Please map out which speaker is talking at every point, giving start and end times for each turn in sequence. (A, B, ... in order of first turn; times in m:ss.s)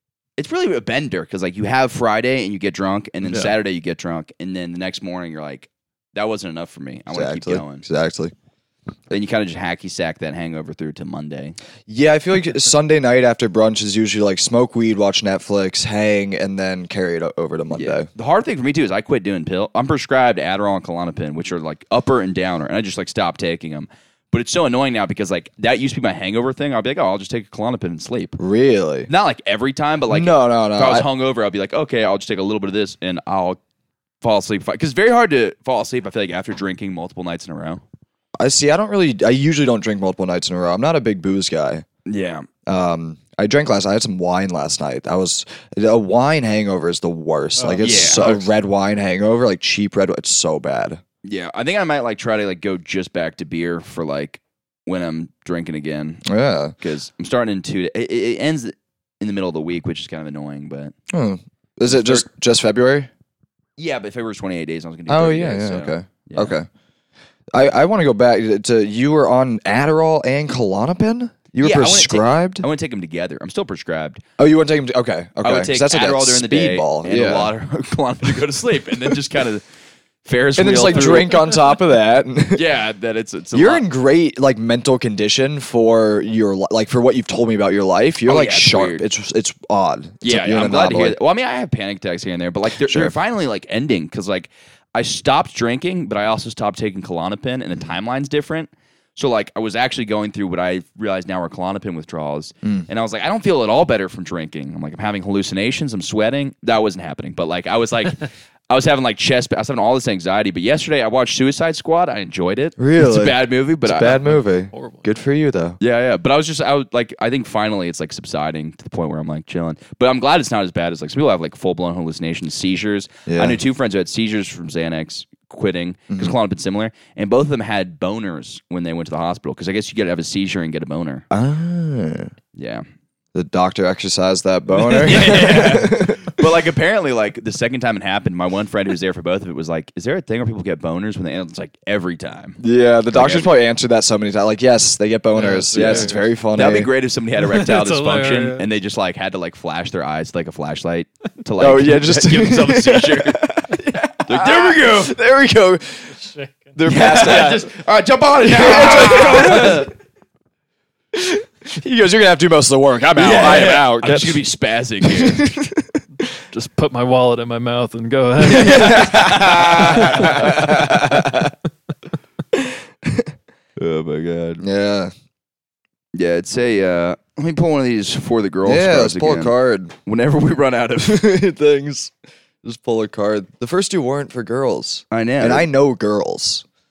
0:00.4-0:07.8 A
0:07.1-0:08.3 B
0:09.1-0:11.6 A
0:11.9-0:18.1 B
0:17.7-0:28.4 A
0:28.4-0:29.1 B
0:29.1-0:33.6 A
0:30.1-0:31.1 B
0:34.2-0:37.8 A
0:38.4-0:41.8 B
0:42.0-0:42.5 A
0:42.6-0:51.0 B
0:47.6-0:48.0 C
0:47.8-0:48.5 A
0:51.2-0:56.2 A
0:56.2-0:56.7 B
0:56.8-1:00.9 A
1:01.1-1:03.1 B
1:01.8-1:02.2 A
1:03.8-1:06.6 A
1:05.1-1:06.7 B
1:07.5-1:12.6 B
1:11.6-1:14.2 A
1:14.4-1:17.5 B
1:15.4-1:19.6 A
1:20.2-1:21.6 A
1:20.6-1:22.6 B
1:22.5-1:23.8 A
1:23.5-1:31.2 B
1:28.2-1:29.0 A
1:30.2-1:54.2 A
1:32.8-1:33.1 B
1:52.8-1:55.8 B
1:54.3-1:55.1 C
1:55.8-2:11.2 A
2:03.3-2:03.6 B
2:06.1-2:06.4 B
2:11.3-2:12.3 B
2:12.5-2:12.8 A
2:13.3-2:16.4 B
2:14.8-2:23.5 A
2:22.6-2:26.9 B
2:25.4-2:26.3 C
2:25.7-2:35.2 A
2:27.4-2:28.6 C
2:31.6-2:36.2 B
2:36.1-2:37.6 C
2:36.8-2:37.7 B
2:36.8-2:39.9 A
2:38.4-2:39.9 B
2:39.1-2:39.6 C
2:41.1-2:44.4 B
2:43.2-2:45.5 A
2:45.0-2:46.0 B
2:46.5-2:49.2 C
2:48.5-2:51.5 B
2:48.6-2:51.4 A
2:49.9-2:50.5 C
2:52.5-2:53.3 B
2:53.8-2:54.6 A
2:54.6-2:55.1 B
2:56.1-2:59.5 A
2:58.6-2:59.9 B
3:00.0-3:01.3 A
3:01.0-3:06.6 B
3:05.1-3:05.7 A